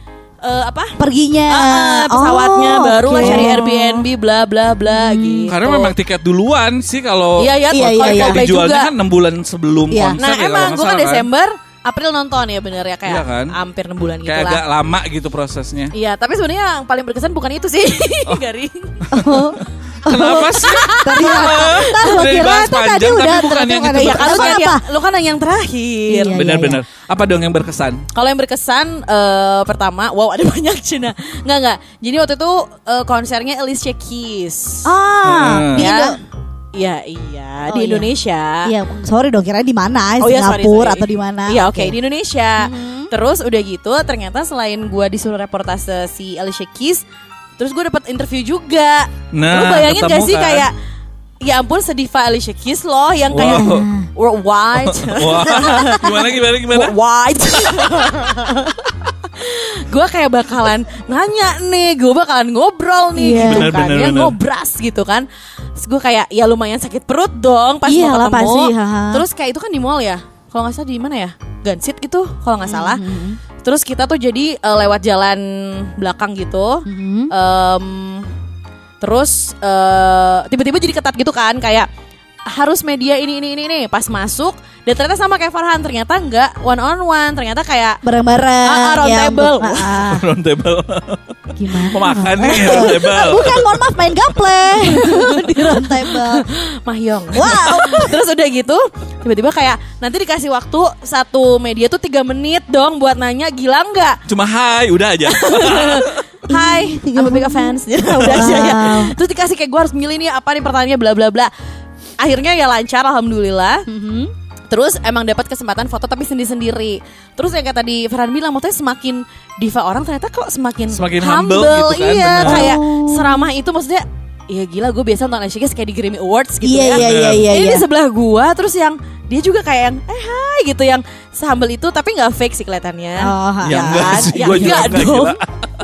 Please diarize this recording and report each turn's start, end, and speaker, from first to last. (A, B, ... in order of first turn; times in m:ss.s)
0:00.4-0:05.9 A
0:01.0-0:04.0 B
0:04.9-0:05.5 B
0:05.5-0:11.3 C
0:07.4-0:08.9 A
0:07.7-0:08.5 B
0:09.9-0:10.2 B
0:10.2-0:14.6 A
0:13.1-0:13.5 C
0:14.2-0:15.9 C
0:15.9-0:19.1 A
0:19.1-0:24.6 C
0:19.1-0:24.8 B
0:20.4-0:22.1 A
0:24.0-0:26.4 A
0:26.1-0:26.8 B
0:26.3-0:28.0 C
0:28.1-0:34.9 A
0:34.8-0:36.2 B
0:35.2-0:35.9 C
0:35.8-0:36.2 A
0:36.7-0:38.7 A
0:37.7-0:38.1 B
0:38.6-0:41.9 B
0:40.2-0:47.0 A
0:42.6-0:43.1 B
0:47.6-0:50.7 A
0:49.3-0:50.7 C
0:51.4-0:58.8 A
0:53.3-0:53.9 C
0:53.4-0:54.1 B
0:54.8-0:56.9 C
0:57.5-0:58.3 C
0:59.4-1:13.1 A
1:03.2-1:03.7 B
1:03.4-1:04.4 C
1:07.9-1:09.2 B
1:12.6-1:13.4 B
1:13.6-1:18.3 A
1:16.9-1:17.3 B
1:19.0-1:21.9 A
1:22.5-1:28.0 A
1:28.0-1:30.3 B
1:28.6-1:29.9 A
1:30.0-1:31.2 C
1:31.6-1:36.4 B
1:31.8-1:33.8 C
1:34.9-1:44.2 A
1:37.3-1:38.2 B
1:44.3-1:46.2 C
1:45.3-1:51.5 A
1:46.5-1:49.1 B
1:52.2-1:53.9 A
1:53.9-1:54.3 B
1:54.7-2:15.4 A
2:00.9-2:02.7 C
2:02.4-2:03.4 B
2:06.6-2:07.9 B
2:07.0-2:07.5 C
2:13.2-2:15.1 B
2:13.6-2:15.4 C